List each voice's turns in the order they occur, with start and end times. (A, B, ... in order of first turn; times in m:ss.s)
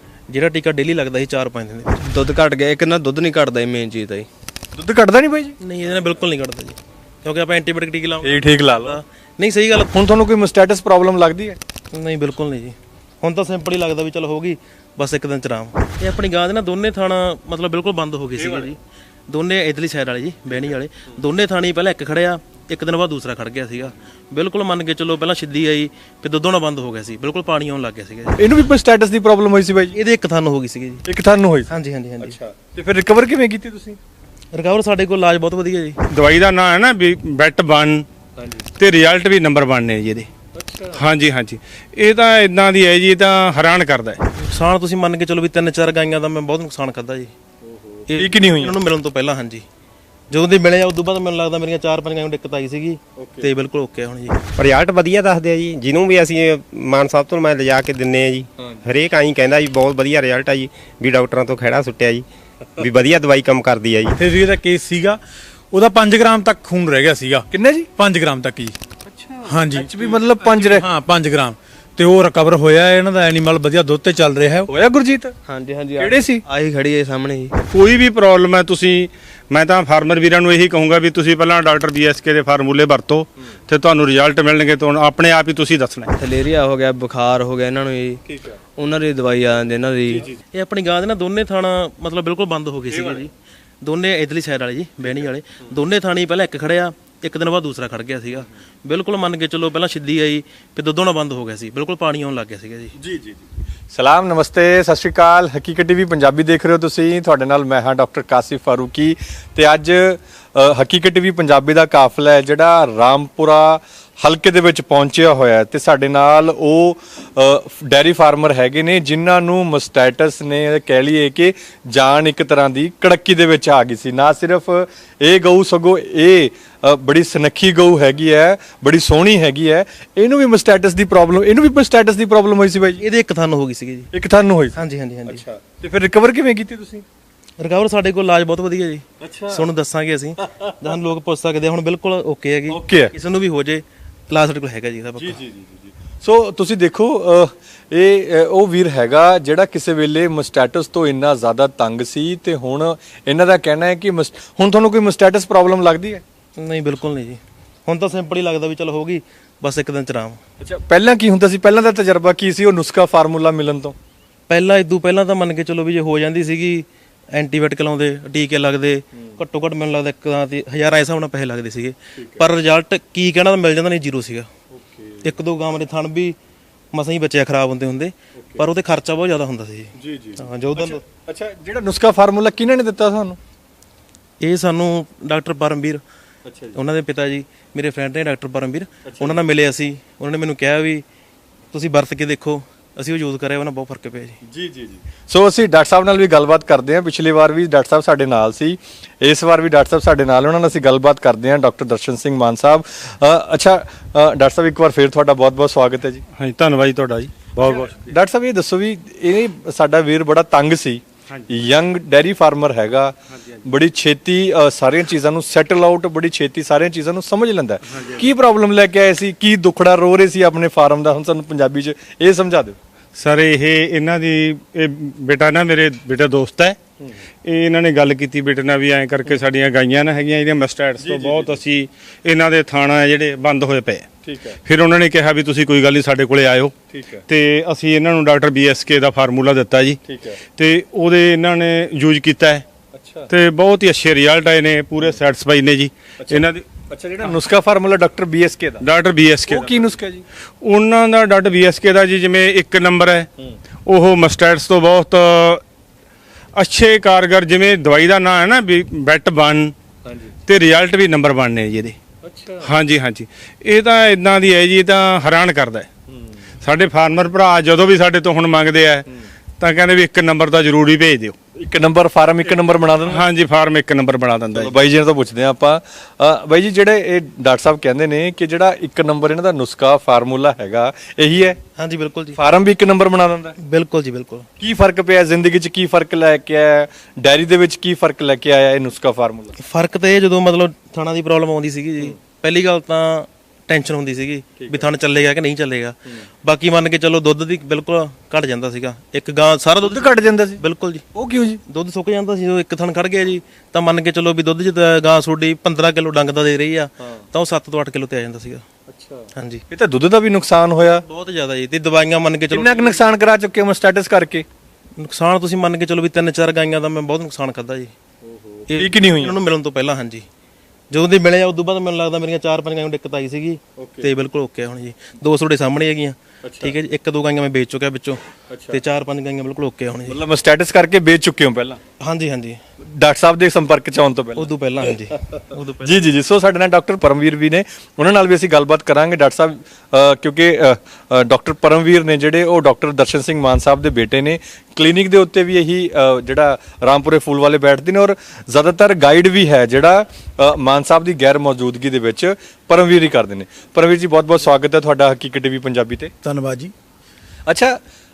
0:00.3-0:02.0 A
0:02.0-0:04.3 B
0:04.8-0:05.6 C
0:05.6-0:09.9 A
0:08.2-0:09.0 C
0:09.9-0:11.6 C
0:11.9-0:28.4 A
0:18.4-0:18.7 C
0:28.4-0:30.0 C
0:29.9-0:31.0 A
0:31.0-0:34.0 C
0:31.7-0:32.4 A
0:34.5-0:36.0 A
0:36.1-0:38.0 D
0:38.4-0:38.7 C
0:38.8-0:40.3 D
0:40.6-0:41.0 C
0:41.0-0:44.2 D
0:44.4-0:47.3 A
0:47.6-0:48.7 C
0:48.1-0:49.6 A
0:50.3-0:54.4 A
0:53.2-0:53.5 C
0:54.6-1:02.3 E
0:58.6-0:58.8 C
1:02.8-1:04.2 E
1:04.2-1:05.2 F
1:05.7-1:08.7 F
1:07.5-1:07.9 C
1:09.0-1:10.9 C
1:09.4-1:09.9 F
1:10.5-1:14.7 F
1:14.7-1:15.4 C
1:15.4-1:17.6 B
1:16.0-1:16.4 C
1:17.7-1:26.1 D
1:26.2-1:28.2 B
1:28.3-1:28.6 C
1:28.8-1:30.2 B
1:30.5-1:42.9 A
1:32.9-1:33.2 C
1:43.0-2:13.0 C
2:13.0-2:14.1 A
2:14.1-2:14.8 C
2:14.8-2:15.4 A
2:15.3-2:17.0 C
2:17.6-2:25.4 A
2:19.2-2:19.6 C
2:22.7-2:23.1 C
2:25.2-2:36.2 C
2:36.6-2:40.4 A
2:40.6-2:43.9 C
2:44.5-2:54.5 A
2:54.7-2:55.3 C
2:55.2-2:56.3 A
2:56.9-3:01.0 A
2:58.4-2:58.6 C
3:00.0-3:03.4 C
3:04.4-3:06.0 A
3:06.4-3:06.8 C
3:06.8-3:11.0 A
3:09.1-3:09.4 C
3:11.7-3:14.4 A
3:14.5-3:26.2 C
3:26.4-3:27.9 D
3:27.6-3:33.1 C
3:33.7-3:42.8 C
3:38.0-3:38.2 D
3:43.2-3:46.8 D
3:47.4-3:54.1 D
3:51.0-3:51.6 C
3:54.2-3:54.6 C
3:54.6-3:56.8 D
3:56.9-3:57.2 C
3:57.3-4:00.0 D
4:00.1-4:00.4 C
4:00.6-4:02.6 D
4:02.9-4:03.3 C
4:03.3-4:06.7 D
4:06.2-4:08.8 C
4:08.8-4:09.9 D
4:09.5-4:10.2 C
4:10.6-4:13.3 D
4:13.9-4:15.6 D
4:16.6-4:19.7 D
4:20.1-4:20.3 C
4:20.5-4:22.0 D
4:22.2-4:22.7 C
4:22.6-4:25.9 D
4:26.6-4:29.0 D
4:29.6-4:31.4 D
4:31.6-4:33.2 C
4:33.1-4:34.8 D
4:34.5-4:41.6 C
4:41.8-4:42.4 A
4:42.4-4:43.5 C
4:43.6-4:44.5 A
4:44.6-4:49.5 C
4:49.6-5:01.1 A
4:54.6-4:54.9 C
4:59.8-5:00.6 C
5:01.1-5:01.6 C
5:01.7-5:08.6 A
5:08.9-5:11.0 C
5:09.4-5:09.6 A
5:10.8-5:13.0 A
5:12.5-5:14.4 C
5:15.0-5:17.9 A
5:18.2-5:19.3 C
5:18.7-5:20.2 A
5:20.9-5:30.2 A
5:23.8-5:24.0 C
5:26.4-5:26.7 C
5:28.5-5:28.8 C
5:30.1-5:31.8 C
5:32.0-5:32.6 A
5:33.0-5:34.4 C
5:34.4-5:36.1 A
5:35.3-5:56.1 C
5:56.2-5:56.7 F
5:57.5-5:57.8 C